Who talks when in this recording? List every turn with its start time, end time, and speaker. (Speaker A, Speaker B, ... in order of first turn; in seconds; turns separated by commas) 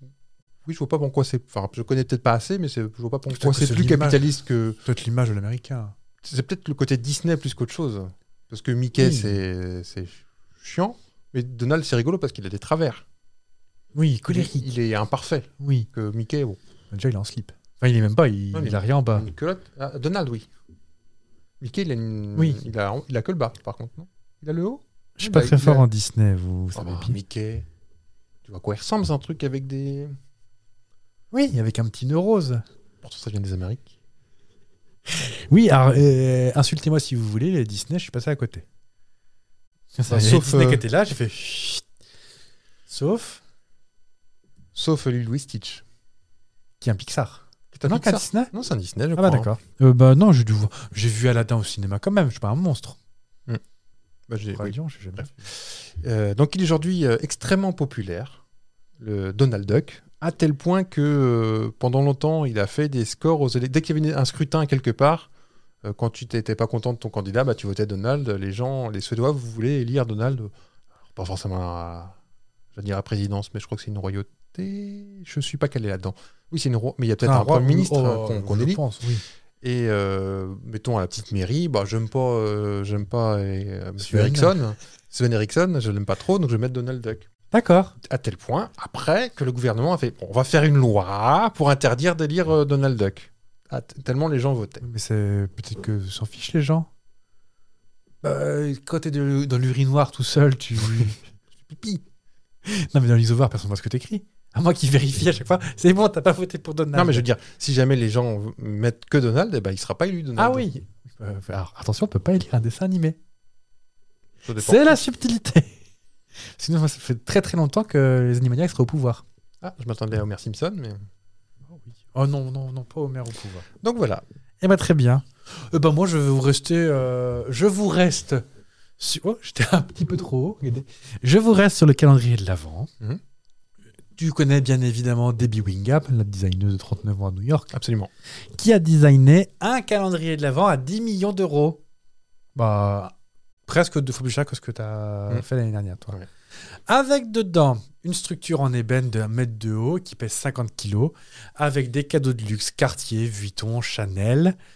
Speaker A: 0.7-4.8, Speaker B: 3.3-4.2, Speaker B: 4.8-6.0, Speaker A: 6.2-13.0, Speaker B: 9.0-9.4, Speaker B: 13.9-14.7, Speaker A: 14.3-16.6, Speaker B: 15.6-15.9, Speaker B: 16.9-19.3, Speaker A: 18.5-20.5, Speaker A: 21.6-25.9, Speaker B: 25.2-27.2, Speaker A: 26.8-27.7, Speaker A: 28.4-30.2, Speaker B: 31.3-32.6, Speaker A: 33.0-33.9, Speaker B: 35.1-38.6, Speaker B: 40.0-41.8, Speaker A: 40.1-40.9, Speaker B: 42.9-43.4, Speaker A: 44.7-45.8, Speaker B: 46.8-48.5, Speaker A: 47.7-49.5, Speaker B: 49.2-53.0, Speaker A: 54.3-58.4, Speaker B: 54.5-55.5, Speaker A: 59.0-65.3, Speaker A: 65.8-70.5, Speaker A: 71.1-72.2, Speaker A: 72.8-78.8, Speaker B: 77.2-79.2, Speaker A: 79.6-87.3, Speaker B: 84.0-84.6, Speaker B: 87.5-87.9, Speaker A: 88.0-94.8, Speaker B: 94.8-96.9, Speaker B: 98.2-101.2, Speaker A: 101.6-102.0, Speaker B: 102.7-107.2, Speaker A: 106.9-110.7, Speaker B: 110.4-113.2, Speaker A: 114.5-115.0, Speaker B: 114.6-115.7, Speaker B: 116.6-119.2, Speaker A: 119.6-121.0, Speaker B: 121.7-123.7, Speaker A: 123.8-124.2, Speaker B: 124.6-128.4, Speaker B: 129.0-132.9, Speaker B: 134.2-137.7, Speaker A: 137.7-138.1, Speaker B: 138.6-141.8, Speaker B: 142.6-143.1, Speaker B: 143.7-146.2, Speaker B: 146.9-154.6